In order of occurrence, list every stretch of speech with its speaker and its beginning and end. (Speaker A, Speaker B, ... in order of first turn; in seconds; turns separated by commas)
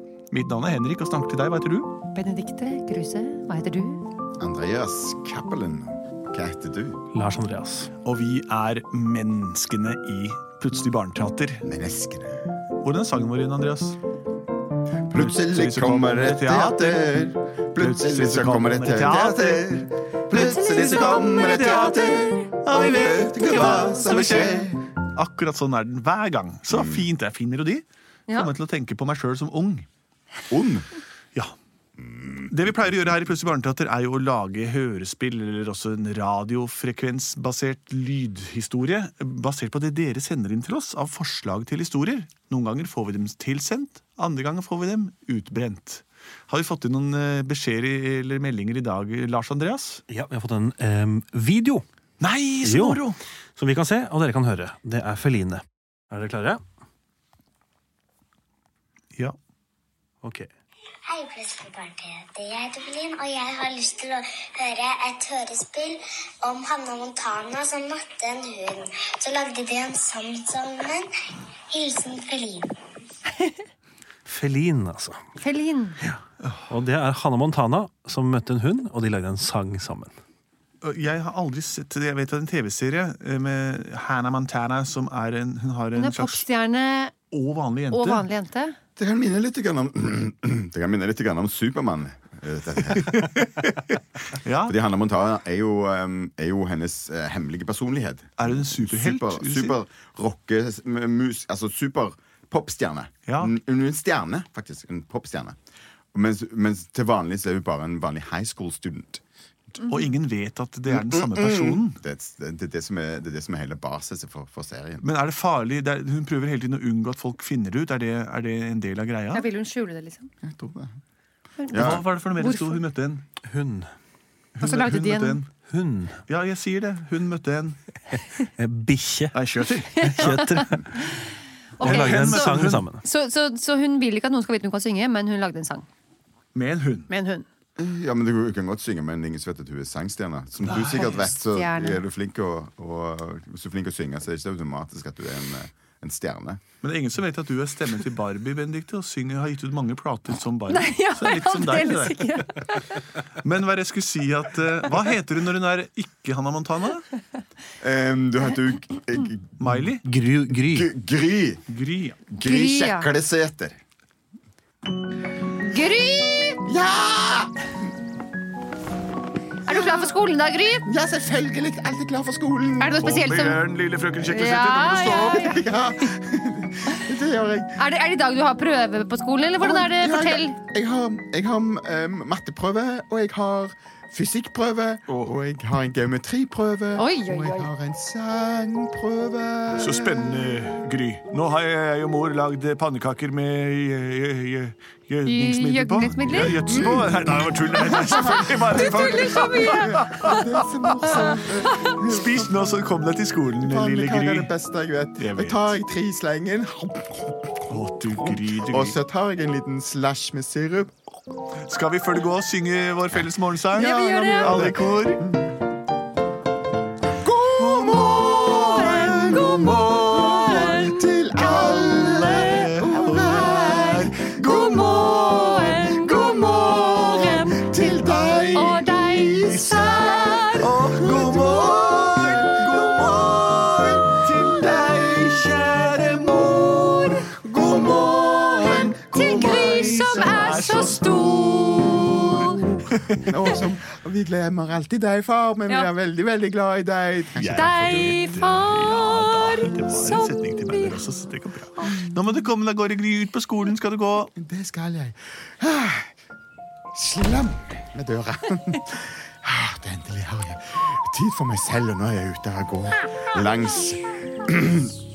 Speaker A: 0.3-1.9, Speaker B: 2.1-4.0, Speaker C: 4.4-7.0, Speaker D: 7.1-7.9, Speaker A: 8.0-11.7, Speaker C: 11.6-12.4, Speaker A: 12.8-14.0, Speaker C: 15.1-24.8, Speaker A: 15.1-17.1, Speaker A: 17.8-22.1, Speaker B: 20.3-22.4, Speaker A: 22.6-29.9, Speaker B: 23.8-24.3, Speaker C: 26.7-27.1, Speaker C: 30.5-30.9, Speaker C: 32.2-32.5, Speaker A: 32.5-50.0, Speaker D: 50.1-51.8, Speaker A: 52.2-53.2, Speaker D: 52.6-53.0, Speaker D: 53.6-56.6, Speaker D: 60.2-60.5, Speaker E: 61.1-71.1, Speaker E: 71.7-72.7, Speaker D: 74.3-75.2, Speaker B: 75.4-76.0, Speaker D: 76.7-80.2, Speaker A: 80.8-86.5, Speaker B: 86.0-87.1, Speaker A: 87.3-88.2, Speaker B: 87.9-88.8, Speaker C: 89.0-93.2, Speaker A: 93.0-94.8, Speaker C: 94.7-105.6, Speaker A: 98.4-99.8, Speaker A: 103.3-103.5, Speaker C: 106.1-109.2, Speaker A: 109.8-112.0, Speaker C: 110.9-115.0, Speaker A: 115.0-119.5, Speaker B: 119.3-120.3, Speaker C: 120.4-121.0, Speaker B: 121.6-122.8, Speaker C: 121.7-122.1, Speaker A: 121.7-123.3, Speaker D: 123.4-123.9, Speaker A: 124.6-125.5, Speaker B: 124.6-125.4, Speaker D: 125.7-126.2, Speaker A: 126.3-127.8, Speaker D: 128.4-129.4, Speaker A: 129.3-130.5, Speaker D: 129.9-131.1, Speaker B: 130.0-131.2, Speaker B: 131.8-135.9, Speaker A: 131.8-132.8, Speaker D: 131.8-133.0, Speaker A: 136.5-137.1, Speaker B: 137.1-137.5, Speaker C: 137.8-146.6, Speaker A: 140.6-141.3, Speaker B: 141.4-142.0, Speaker A: 146.8-152.7, Speaker B: 150.7-153.0, Speaker A: 153.3-157.1, Speaker C: 157.8-159.5, Speaker A: 159.6-160.1, Speaker D: 159.9-160.9, Speaker C: 160.6-161.6, Speaker A: 161.7-162.3, Speaker C: 162.3-163.8, Speaker B: 162.4-163.1, Speaker B: 165.6-166.6, Speaker C: 166.7-167.6, Speaker B: 169.7-170.8, Speaker C: 169.7-170.1, Speaker C: 170.9-173.0, Speaker B: 172.8-173.6, Speaker A: 173.0-175.6, Speaker B: 174.2-175.7, Speaker C: 175.3-177.8, Speaker B: 177.8-180.6, Speaker C: 179.6-190.5, Speaker B: 187.0-187.7, Speaker A: 189.8-201.1, Speaker B: 195.3-196.6, Speaker C: 196.4-202.7, Speaker B: 197.9-200.3, Speaker A: 201.9-204.5, Speaker C: 203.6-210.9, Speaker A: 205.2-205.8, Speaker A: 207.7-209.0, Speaker A: 211.7-215.2, Speaker B: 213.7-214.7, Speaker C: 213.7-215.5, Speaker C: 217.2-235.0, Speaker A: 217.6-219.4, Speaker B: 217.8-230.7, Speaker A: 222.3-224.9, Speaker A: 228.3-228.6, Speaker A: 230.6-243.3, Speaker C: 237.3-241.0, Speaker B: 238.9-242.7, Speaker C: 242.1-242.4, Speaker C: 243.2-248.4, Speaker B: 247.4-251.0, Speaker A: 247.4-254.3, Speaker C: 251.8-252.3, Speaker C: 254.3-256.1, Speaker C: 256.9-265.0